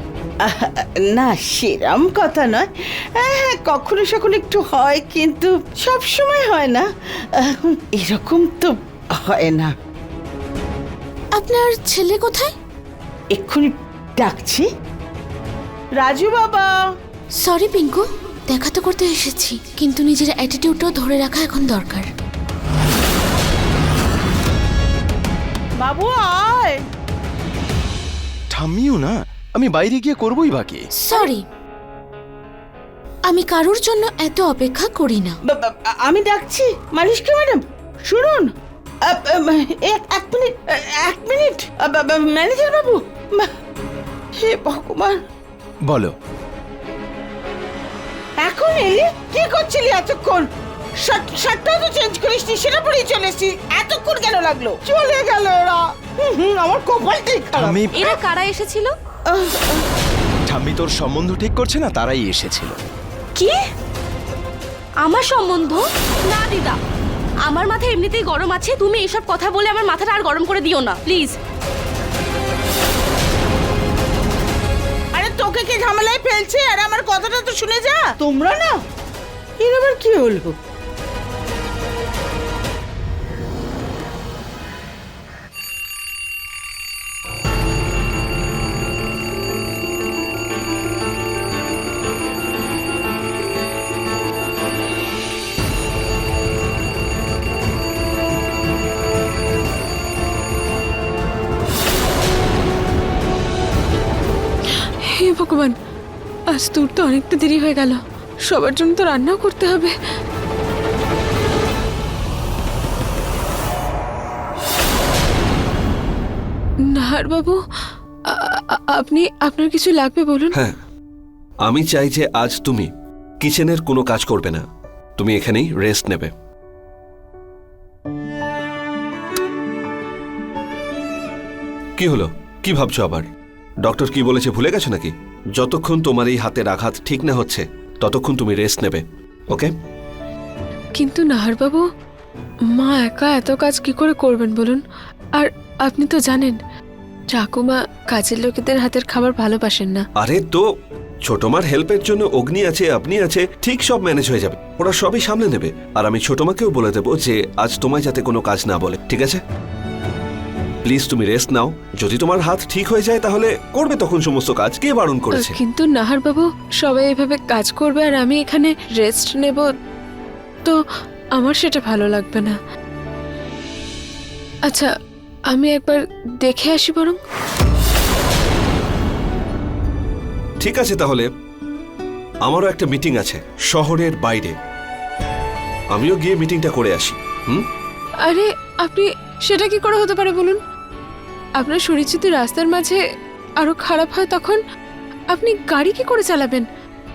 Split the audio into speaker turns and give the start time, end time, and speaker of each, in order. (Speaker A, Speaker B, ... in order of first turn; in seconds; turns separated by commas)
Speaker A: 0.4-9.7, Speaker B: 11.3-12.5, Speaker A: 13.3-14.7, Speaker A: 16.0-16.7, Speaker B: 17.4-22.1, Speaker A: 25.8-26.8, Speaker C: 28.5-30.8, Speaker B: 31.0-31.4, Speaker B: 33.3-35.4, Speaker A: 35.5-38.5, Speaker A: 39.0-43.5, Speaker A: 44.4-45.2, Speaker C: 45.9-46.1, Speaker A: 48.4-50.5, Speaker A: 51.0-58.2, Speaker C: 57.5-58.0, Speaker D: 57.9-58.9, Speaker A: 59.3-59.9, Speaker C: 60.5-62.8, Speaker D: 65.0-66.8, Speaker D: 67.5-71.4, Speaker A: 75.1-78.8, Speaker A: 79.6-80.6, Speaker E: 105.0-105.8, Speaker E: 106.5-110.0, Speaker E: 116.9-117.6, Speaker E: 118.3-120.5, Speaker F: 121.7-122.9, Speaker F: 123.4-124.6, Speaker F: 125.2-126.3, Speaker F: 132.0-133.3, Speaker F: 133.8-139.7, Speaker E: 141.0-141.9, Speaker E: 142.7-144.8, Speaker E: 145.4-146.6, Speaker E: 147.3-150.1, Speaker F: 150.2-150.6, Speaker F: 151.3-159.4, Speaker F: 160.8-165.6, Speaker E: 165.3-169.7, Speaker E: 171.4-172.6, Speaker E: 175.5-177.2, Speaker F: 180.6-181.3, Speaker F: 182.5-184.6, Speaker F: 185.9-187.7, Speaker E: 188.2-190.6, Speaker E: 191.6-193.0, Speaker E: 193.6-194.6, Speaker E: 195.3-196.7